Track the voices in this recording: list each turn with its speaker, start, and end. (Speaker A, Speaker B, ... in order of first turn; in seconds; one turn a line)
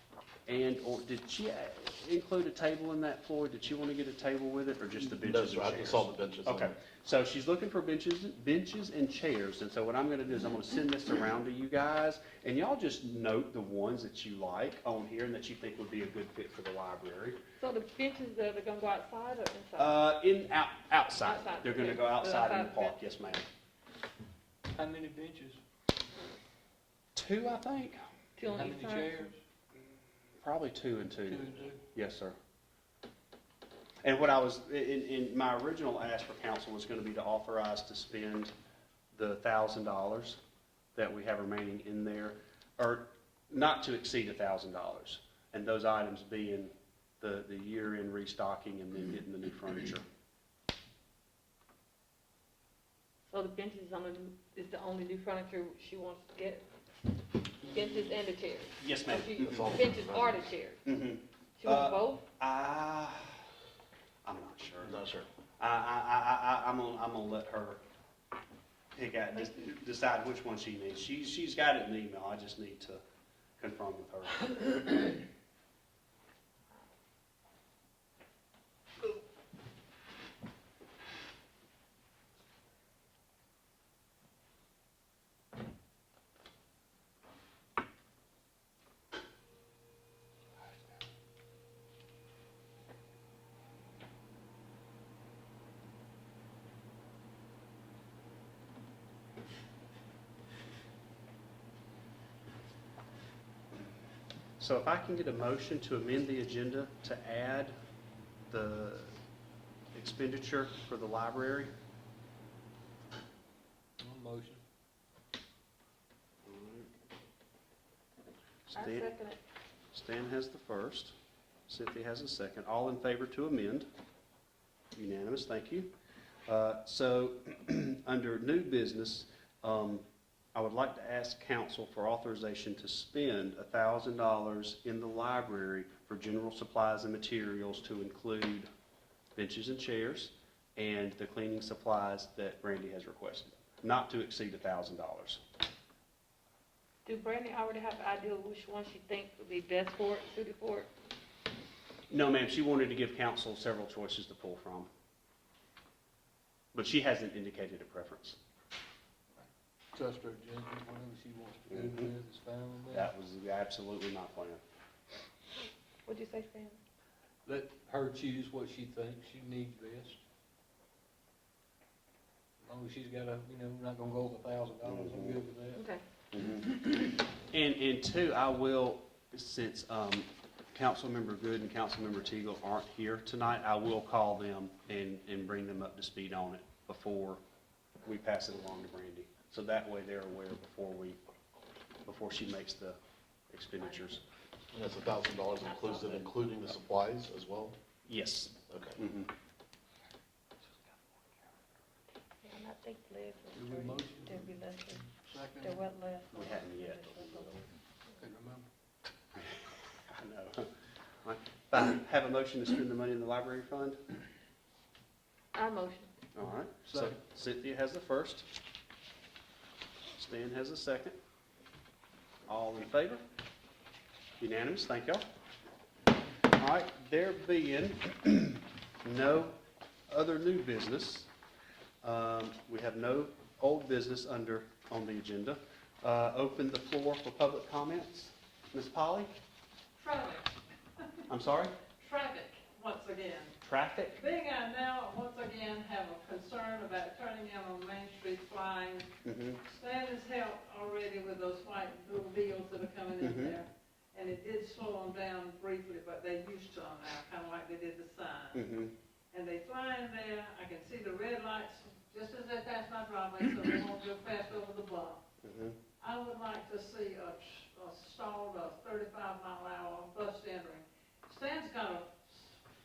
Speaker A: 0.5-17.4
Speaker B: 5.2-6.8
Speaker C: 17.6-20.1
Speaker A: 19.8-23.5
Speaker C: 21.2-22.9
Speaker D: 24.7-25.6
Speaker A: 27.1-28.0
Speaker C: 28.4-29.3
Speaker D: 28.4-29.4
Speaker A: 30.4-32.4
Speaker D: 31.2-31.8
Speaker A: 34.0-38.5
Speaker A: 39.1-40.4
Speaker A: 41.0-50.0
Speaker C: 53.3-56.6
Speaker C: 57.6-60.8
Speaker A: 58.8-59.8
Speaker B: 59.4-60.5
Speaker A: 60.8-63.4
Speaker C: 61.6-62.2
Speaker A: 64.2-65.0
Speaker B: 64.8-65.3
Speaker A: 65.6-67.8
Speaker A: 68.9-73.0
Speaker A: 73.6-75.0
Speaker A: 104.6-107.7
Speaker A: 108.5-109.2
Speaker A: 109.9-111.7
Speaker D: 114.0-114.6
Speaker A: 116.5-116.9
Speaker A: 118.7-119.1
Speaker C: 118.7-119.4
Speaker A: 119.9-121.1
Speaker A: 121.7-123.8
Speaker A: 124.9-125.9
Speaker A: 126.5-138.7
Speaker A: 139.3-145.4
Speaker C: 147.1-150.9
Speaker A: 152.1-154.9
Speaker A: 156.7-158.4
Speaker D: 159.9-163.1
Speaker A: 161.7-162.1
Speaker A: 162.9-164.6
Speaker C: 166.1-166.8
Speaker D: 167.4-170.2
Speaker D: 172.6-175.8
Speaker A: 174.8-175.4
Speaker C: 175.7-176.0
Speaker A: 176.3-176.8
Speaker A: 177.4-187.4
Speaker A: 188.0-191.2
Speaker A: 192.1-193.0
Speaker A: 193.5-194.2
Speaker B: 194.7-197.8
Speaker C: 195.4-196.3
Speaker A: 198.1-199.3
Speaker B: 198.7-199.0
Speaker C: 202.4-205.1
Speaker D: 203.5-205.8
Speaker C: 205.6-207.6
Speaker A: 206.3-207.6
Speaker D: 208.2-208.7
Speaker A: 209.3-210.7
Speaker A: 211.2-214.0
Speaker C: 215.5-216.1
Speaker A: 216.3-218.4
Speaker D: 216.9-217.2
Speaker A: 220.2-221.2
Speaker A: 222.5-223.2
Speaker A: 224.4-225.2
Speaker A: 226.5-229.6
Speaker A: 230.1-231.3
Speaker A: 232.0-239.3
Speaker E: 239.9-240.5
Speaker A: 241.3-241.7
Speaker E: 242.0-243.6
Speaker A: 243.6-244.2
Speaker E: 244.2-249.1
Speaker A: 249.2-249.6
Speaker E: 249.6-258.6
Speaker A: 253.2-253.5
Speaker A: 258.5-258.9
Speaker E: 259.3-265.2
Speaker A: 265.4-265.8
Speaker E: 266.0-272.6